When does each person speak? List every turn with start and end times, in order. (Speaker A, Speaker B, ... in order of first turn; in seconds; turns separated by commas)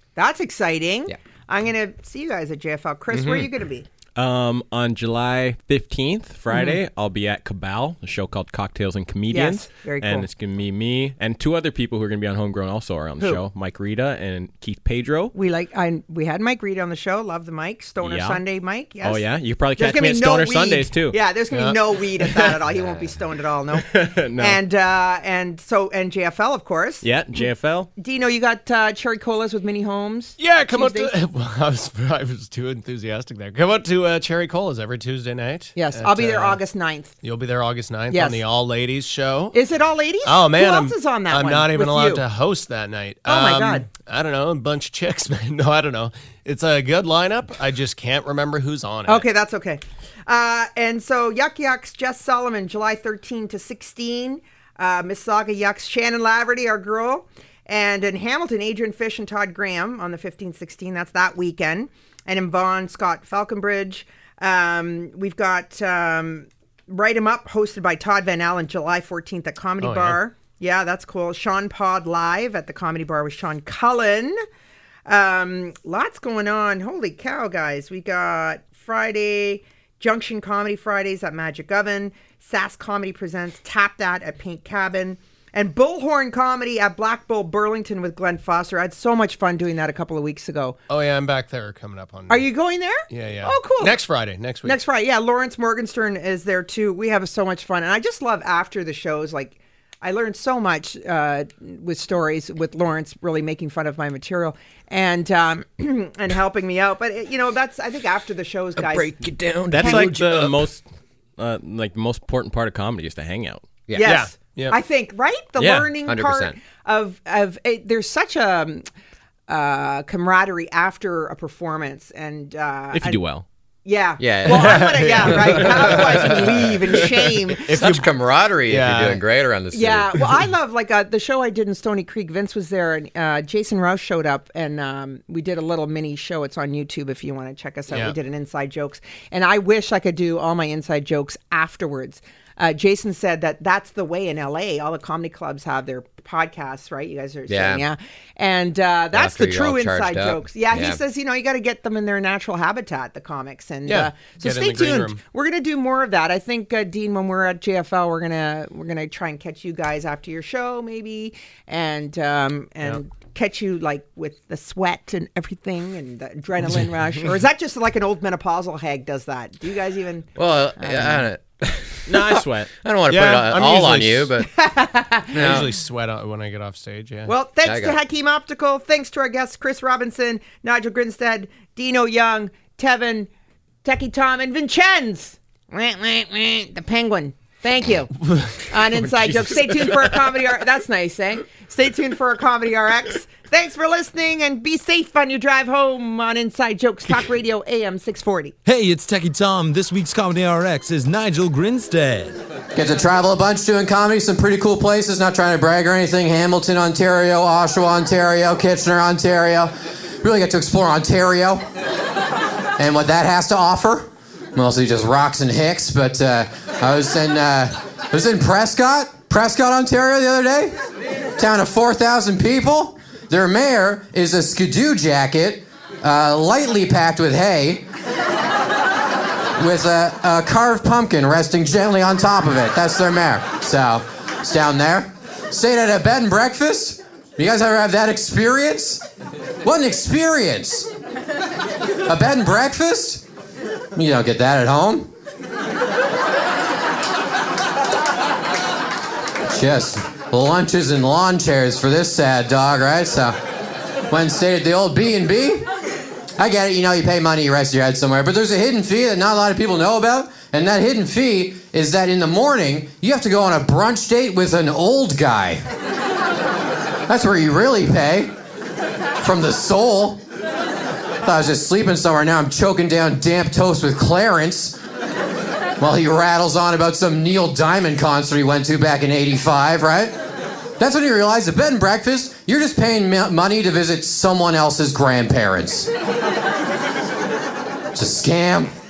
Speaker A: 0.1-3.9, Speaker B: 3.1-3.5, Speaker C: 4.2-15.3, Speaker A: 6.5-6.8, Speaker A: 9.3-10.3, Speaker A: 15.3-19.2, Speaker C: 18.0-18.4, Speaker C: 19.0-21.2, Speaker A: 19.8-31.1, Speaker D: 21.5-22.6, Speaker B: 22.8-23.1, Speaker C: 23.8-24.6, Speaker C: 27.0-27.9, Speaker D: 30.4-36.6, Speaker A: 35.8-37.1, Speaker D: 37.2-39.6, Speaker A: 38.1-38.4, Speaker A: 39.5-42.2, Speaker D: 40.2-49.3, Speaker A: 43.3-43.9, Speaker A: 49.0-74.4, Speaker D: 69.8-70.2, Speaker A: 75.1-90.8, Speaker D: 90.9-92.5, Speaker A: 92.3-94.0, Speaker D: 93.1-94.8, Speaker A: 94.6-109.1, Speaker B: 108.8-110.7, Speaker C: 109.7-110.8, Speaker A: 109.8-110.1, Speaker C: 111.4-113.7, Speaker B: 113.9-114.2, Speaker A: 113.9-118.8, Speaker D: 114.0-114.8, Speaker C: 115.6-115.9, Speaker B: 116.0-116.6, Speaker A: 119.5-123.2, Speaker C: 122.9-123.4, Speaker A: 123.8-127.7, Speaker B: 124.2-126.4, Speaker D: 124.4-126.8, Speaker D: 127.6-129.2, Speaker B: 127.7-130.2, Speaker A: 129.7-171.2, Speaker D: 137.9-138.2, Speaker B: 147.5-147.8, Speaker B: 149.1-151.0, Speaker D: 153.9-155.2, Speaker B: 170.4-174.5, Speaker C: 172.1-172.7, Speaker D: 173.1-174.3, Speaker A: 174.5-175.6, Speaker B: 175.3-175.7, Speaker D: 175.3-177.3, Speaker A: 177.3-183.3, Speaker B: 177.6-178.0, Speaker A: 183.8-198.6, Speaker D: 188.3-189.8, Speaker E: 198.7-202.4, Speaker B: 202.7-211.7, Speaker B: 212.8-220.8, Speaker B: 221.4-227.9, Speaker B: 229.6-239.0, Speaker B: 239.6-240.9, Speaker B: 242.0-243.2, Speaker B: 243.9-245.1, Speaker B: 249.4-253.4, Speaker B: 254.1-255.7, Speaker B: 256.4-265.6, Speaker B: 267.1-268.3, Speaker B: 269.2-270.2, Speaker B: 271.2-274.8, Speaker B: 275.8-280.2, Speaker B: 280.8-285.9, Speaker B: 287.9-288.7